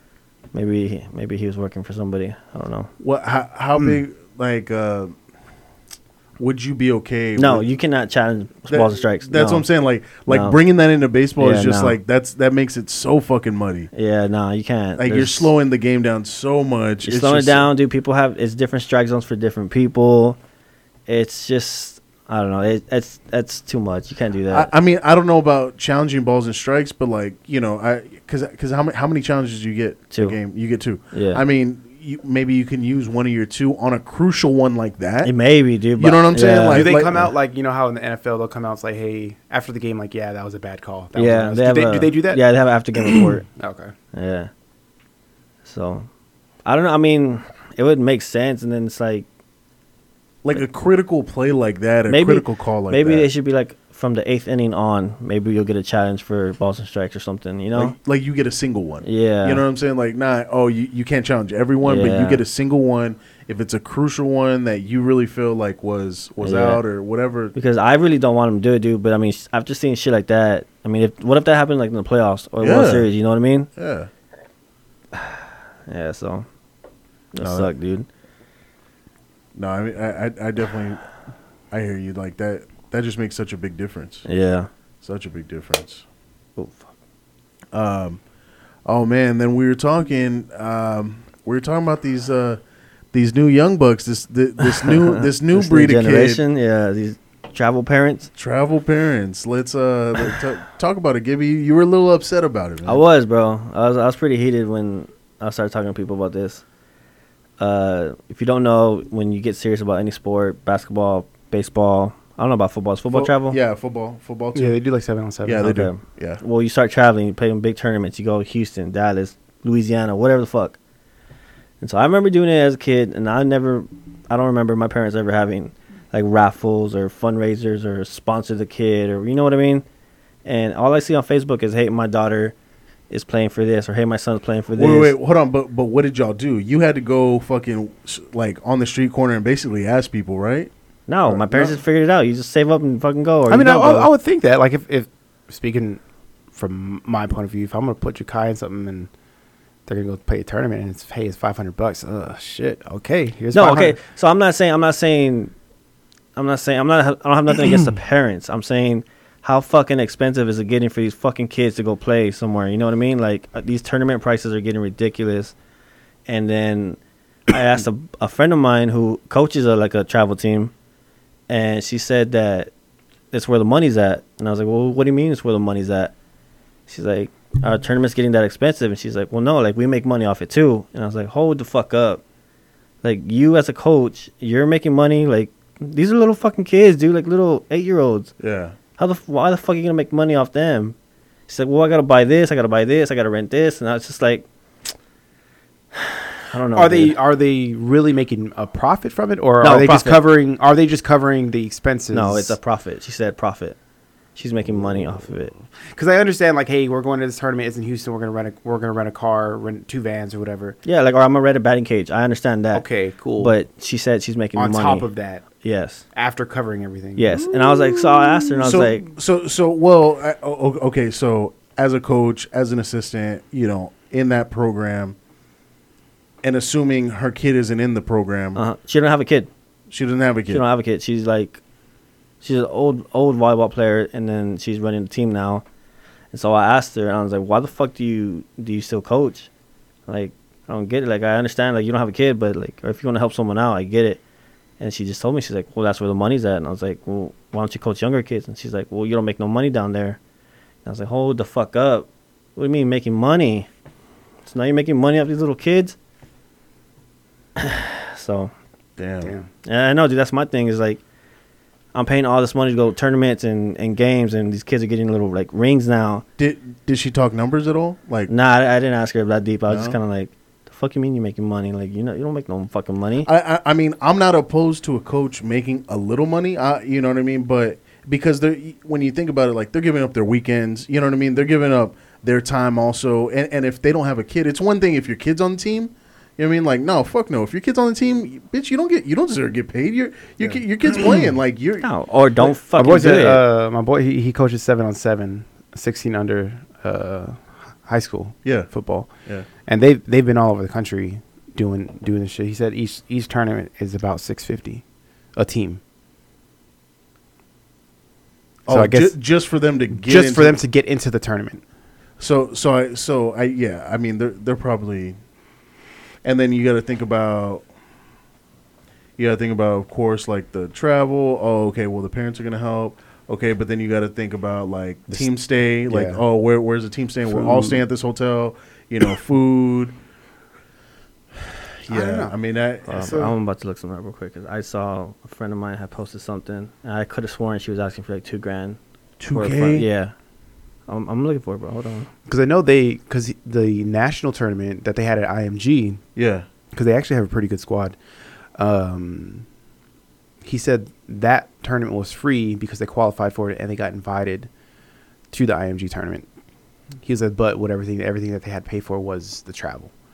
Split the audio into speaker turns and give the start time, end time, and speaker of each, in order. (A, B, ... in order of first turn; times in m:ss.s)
0:00.5-0:02.9 A
0:03.0-0:05.2 B
0:06.4-0:07.7 B
0:07.4-0:09.7 A
0:08.7-0:13.9 B
0:10.3-0:10.6 A
0:11.4-0:12.0 A
0:13.9-0:15.5 A
0:15.0-0:17.7 B
0:17.0-0:20.4 A
0:21.1-0:24.7 A
0:24.5-0:35.3 B
0:30.1-0:30.4 A
0:31.1-0:31.4 A
0:35.2-0:37.3 A
0:36.0-0:37.2 B
0:36.4-0:42.4 C
0:41.2-0:43.5 A
0:43.1-0:43.9 C
0:44.1-0:44.5 A
0:45.6-0:46.1 A
0:46.7-0:49.3 A
0:50.4-0:53.3 B
0:52.1-0:58.0 A
0:57.8-1:07.6 B
0:59.0-0:59.6 A
1:01.8-1:02.4 A
1:06.4-1:06.8 A
1:07.6-1:13.7 A
1:12.6-1:13.1 B
1:13.8-1:14.1 B
1:15.1-1:16.5 A
1:17.3-1:18.1 A
1:17.4-1:17.7 B
1:19.6-1:21.0 B
1:21.7-1:24.3 B
1:24.3-1:24.7 A
1:25.0-1:26.0 B
1:26.6-1:26.9 A
1:27.7-1:28.2 B
1:28.8-1:32.6 B
1:33.1-1:36.4 B
1:34.6-1:38.3 A
1:38.4-1:43.0 B
1:42.8-1:46.6 A
1:47.6-1:53.6 A
1:53.1-1:54.8 B
1:54.6-1:55.7 C
1:55.4-1:56.4 B
1:55.6-2:00.8 A
2:01.8-2:09.8 A
2:10.4-2:12.6 A
2:13.1-2:15.2 A
2:14.8-2:20.7 B
2:21.1-2:24.1 A
2:21.3-2:21.8 B
2:23.5-2:26.0 C
2:26.5-2:29.1 C
2:29.9-2:34.0 C
2:33.5-2:35.5 A
2:36.4-2:45.6 A
2:46.3-2:50.7 A
2:51.5-2:52.7 A
2:53.3-2:56.1 A
2:56.9-3:02.2 A
3:03.0-3:08.3 A
3:08.4-3:08.8 B
3:09.0-3:11.0 A
3:11.5-3:14.4 A
3:16.4-3:17.2 A
3:16.7-3:22.6 C
3:19.6-3:20.3 A
3:22.1-3:23.8 A
3:24.4-3:25.5 A
3:25.9-3:30.8 C
3:30.8-3:32.9 A
3:32.7-3:33.5 C
3:33.4-3:35.1 A
3:34.6-3:35.4 C
3:35.6-3:36.0 A
3:36.2-3:37.4 C
3:37.2-3:39.1 A
3:37.4-3:45.2 B
3:46.4-3:48.6 B
3:48.6-3:49.5 A
3:49.9-3:50.6 B
3:50.5-3:51.6 A
3:52.4-3:55.6 A
3:56.3-3:59.5 A
4:00.1-4:04.2 A
4:04.8-4:10.2 A
4:10.8-4:13.7 A
4:14.5-4:16.0 A
4:17.6-4:18.5 A
4:19.0-4:19.3 B
4:19.2-4:19.5 C
4:19.7-4:21.0 A
4:21.9-4:26.2 A
4:26.4-4:28.3 B
4:28.3-4:33.3 A
4:29.7-4:30.0 B
4:33.2-4:51.9 B
4:51.8-4:53.4 A
4:52.4-4:59.1 C
4:59.7-5:04.8 C
5:05.4-5:05.8 C
5:08.7-5:10.6 B
5:08.7-5:09.2 C
5:09.9-5:11.6 C
5:12.2-5:15.2 B
5:16.2-5:17.6 B
5:19.2-5:30.0 B
5:25.9-5:26.2 C
5:27.3-5:27.8 C
5:31.4-5:33.1 B
5:31.9-5:32.3 C
5:32.9-5:33.3 C
5:32.9-5:38.8 A
5:39.2-5:39.9 B
5:39.3-5:40.1 A
5:40.9-5:42.1 A
5:42.3-5:46.0 C
5:46.2-5:46.5 B
5:46.7-5:48.0 C
5:48.6-5:49.5 C
5:50.4-5:54.5 C
5:55.3-5:56.3 C
5:57.0-5:59.9 C